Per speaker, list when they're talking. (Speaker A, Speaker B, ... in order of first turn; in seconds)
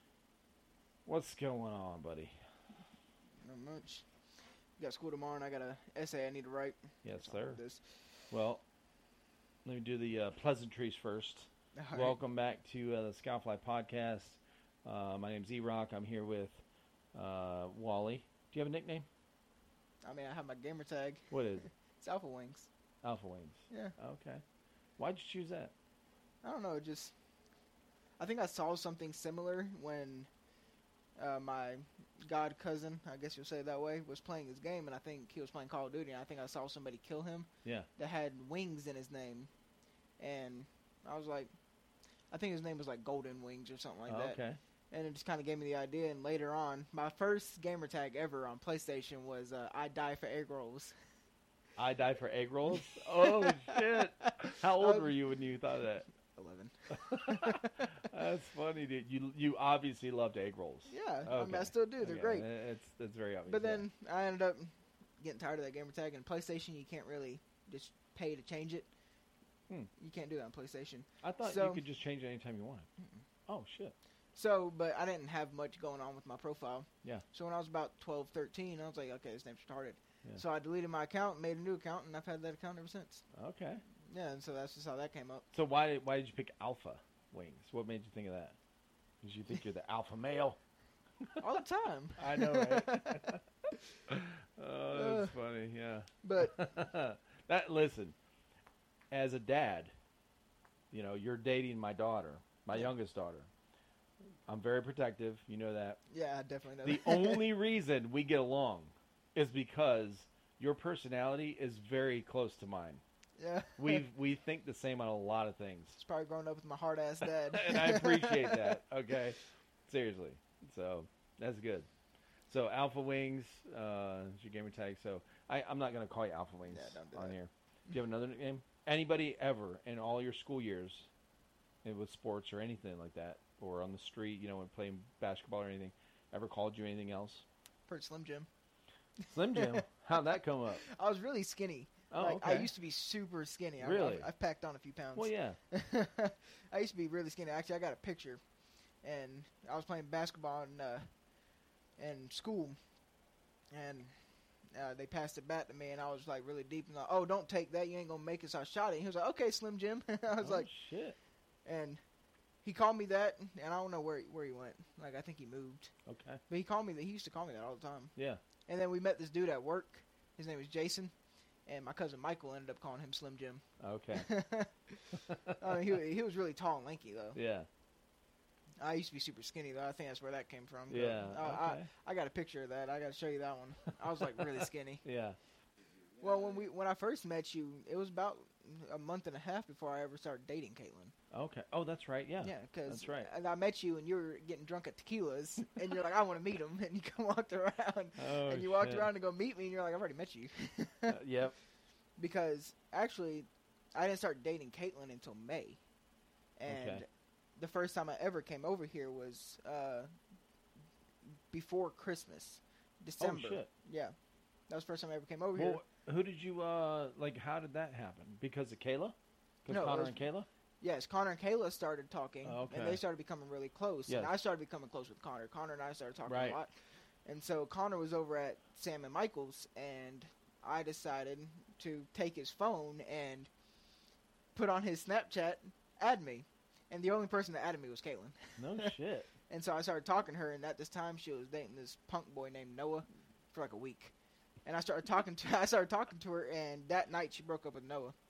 Speaker A: 1.1-2.3, 7.0-7.6, 8.3-8.6, 9.6-16.6, 17.1-19.1, 21.3-21.7, 23.0-24.4, 25.0-25.7, 44.1-44.6, 51.8-56.1, 56.9-63.8, 71.2-72.9, 73.5-73.9, 83.3-83.8, 85.5-88.6, 89.2-90.6, 92.2-93.4, 94.1-98.2, 99.1-99.9, 100.9-103.5, 104.5-106.0, 106.8-113.0, 113.8-116.0, 117.2-121.9, 122.5-131.1, 131.8-137.4, 139.3-140.8, 142.1-142.7, 143.8-144.3, 145.2-145.6, 160.3-161.2, 166.1-166.4, 168.2-168.4, 173.8-174.3, 175.1-175.9, 177.3-177.7, 180.9-181.9, 185.0-185.4, 191.3-193.3, 198.2-199.1, 201.1-201.6, 206.7-207.0, 213.2-213.7, 215.6-220.5, 222.4-223.0, 224.1-224.4, 226.2-226.6, 238.6-239.3
Speaker B: 3.4-4.0, 4.8-8.0, 11.7-12.2, 20.0-22.7, 23.7-23.9, 26.4-27.1, 28.2-30.3, 31.2-39.5, 40.2-41.5, 42.3-44.4, 44.9-50.9, 52.7-55.1, 56.3-58.0, 60.9-62.5, 63.5-68.9, 70.0-71.8, 74.3-83.2, 84.0-85.5, 91.4-93.3, 94.9-95.3, 96.2-96.7, 106.1-107.4, 113.4-114.0, 116.0-118.8, 126.7-127.3, 137.9-138.5, 139.2-148.4, 149.0-151.0, 152.0-152.8, 153.7-154.1, 154.7-160.7, 161.7-162.0, 162.6-165.9, 166.5-168.1, 168.7-171.1, 171.7-173.6, 174.1-177.4, 178.8-185.0, 186.2-191.1, 192.4-201.2, 202.2-205.8, 206.6-210.1, 211.5-214.1, 214.7-215.8, 219.7-220.2, 220.8-226.7, 227.2-233.5, 234.5-238.9, 239.5-244.1, 244.6-248.1